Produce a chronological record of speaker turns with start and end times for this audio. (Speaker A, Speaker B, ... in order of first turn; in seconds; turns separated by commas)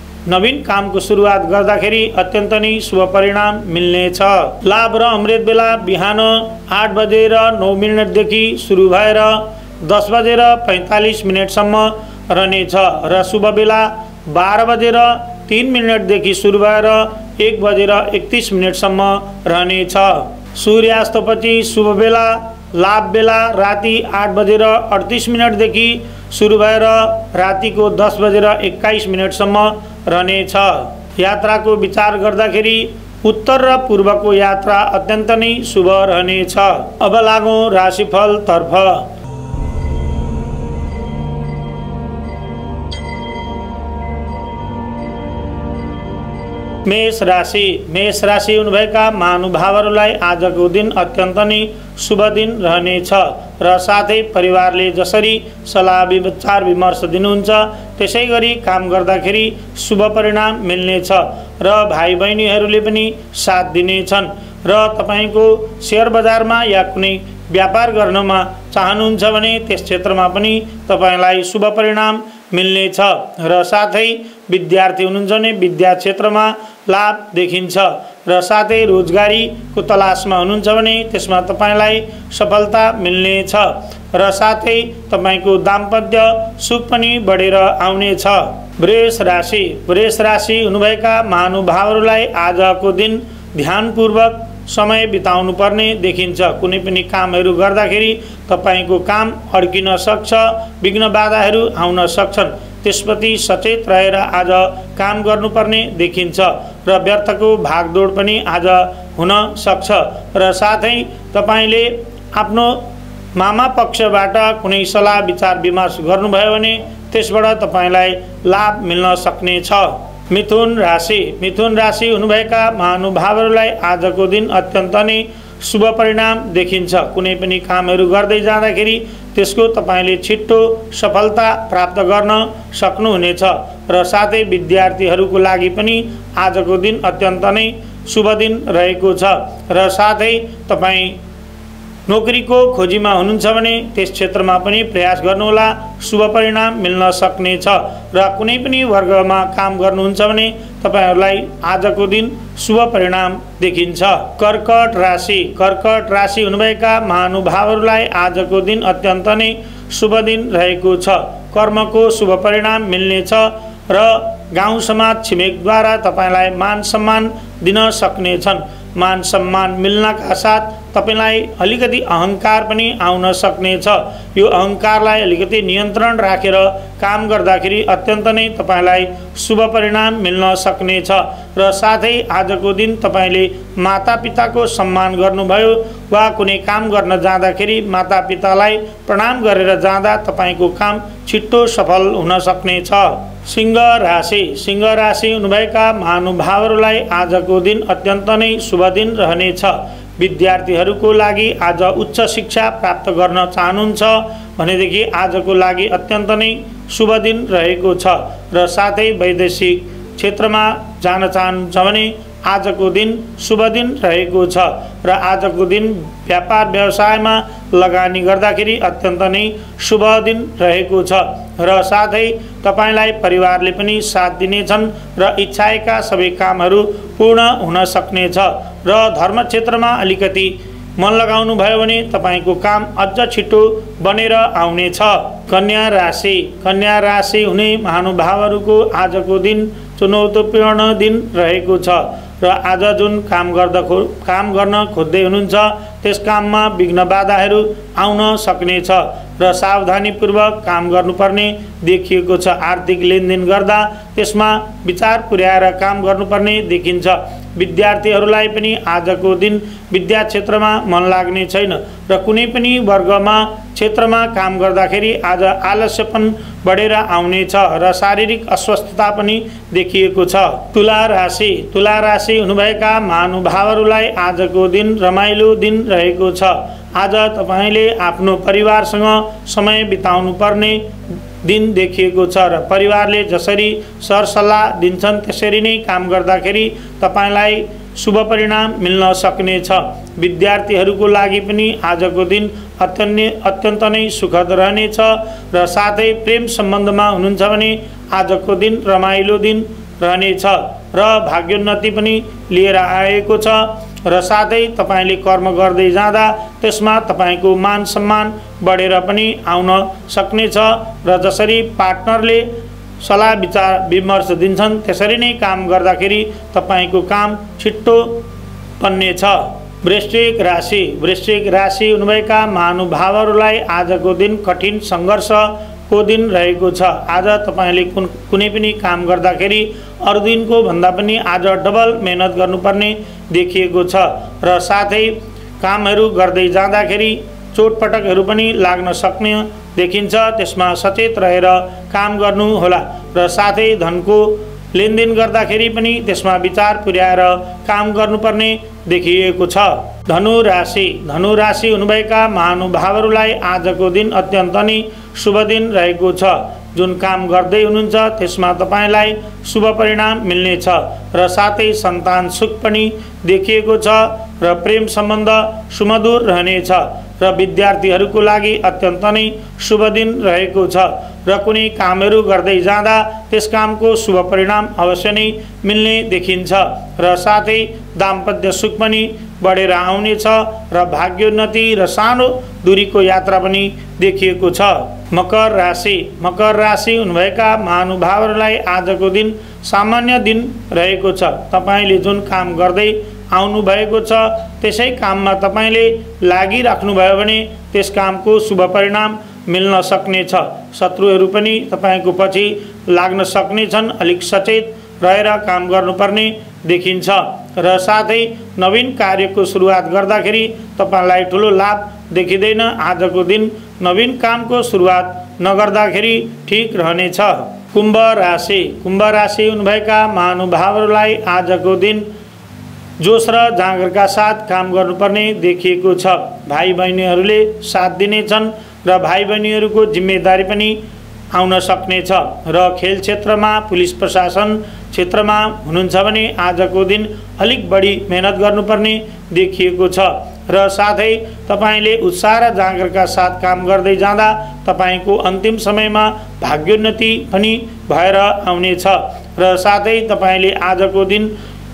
Speaker A: 0.2-39.1, Speaker A: 46.8-141.2, Speaker A: 142.1-280.9, Speaker A: 281.4-318.2, Speaker A: 318.8-422.1, Speaker A: 423.0-430.8, Speaker A: 431.3-451.3